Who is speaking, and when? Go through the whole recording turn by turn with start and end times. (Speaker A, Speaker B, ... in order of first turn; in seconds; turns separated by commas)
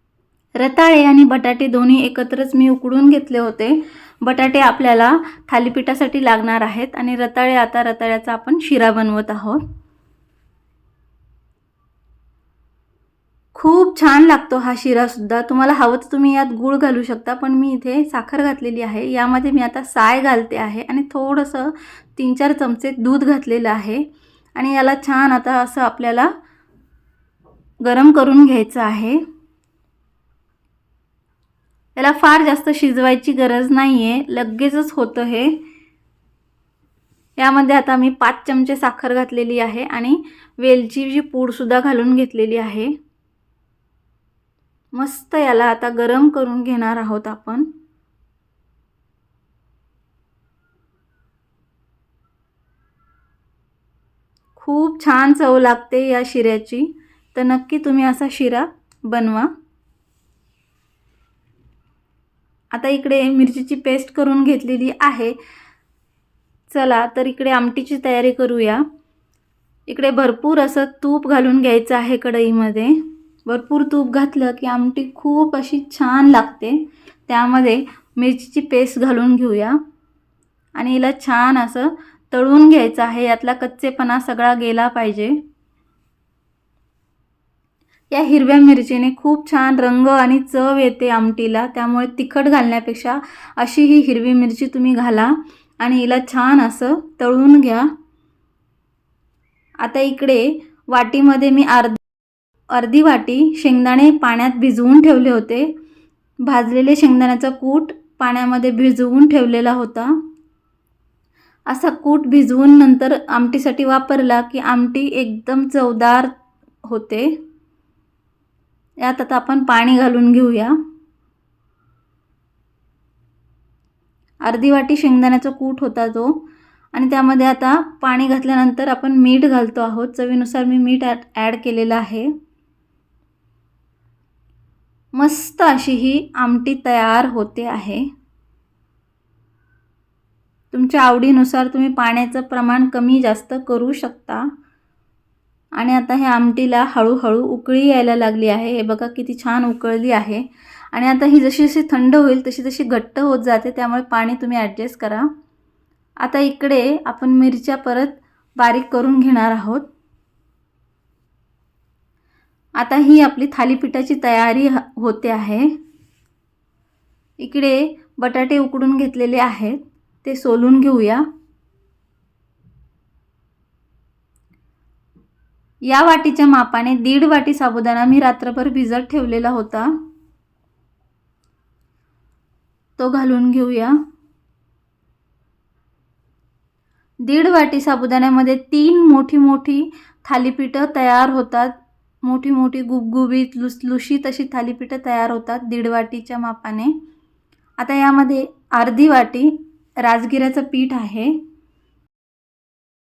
Speaker A: 0.6-9.6, Speaker A: 13.6-26.3, Speaker A: 27.8-29.2, Speaker A: 32.0-35.6, Speaker A: 37.4-42.9, Speaker A: 44.9-47.7, Speaker A: 54.5-59.5, Speaker A: 62.7-65.3, Speaker A: 66.7-68.8, Speaker A: 69.9-79.8, Speaker A: 80.8-85.4, Speaker A: 88.1-97.9, Speaker A: 99.8-102.0, Speaker A: 102.7-105.7, Speaker A: 106.4-110.2, Speaker A: 111.7-116.3, Speaker A: 116.8-117.4, Speaker A: 119.0-120.8, Speaker A: 124.4-132.3, Speaker A: 135.2-138.1, Speaker A: 140.7-144.5, Speaker A: 145.8-155.3, Speaker A: 156.2-159.9, Speaker A: 162.8-165.7, Speaker A: 167.4-171.2, Speaker A: 175.9-179.9, Speaker A: 183.0-184.0, Speaker A: 187.2-196.9, Speaker A: 197.8-201.3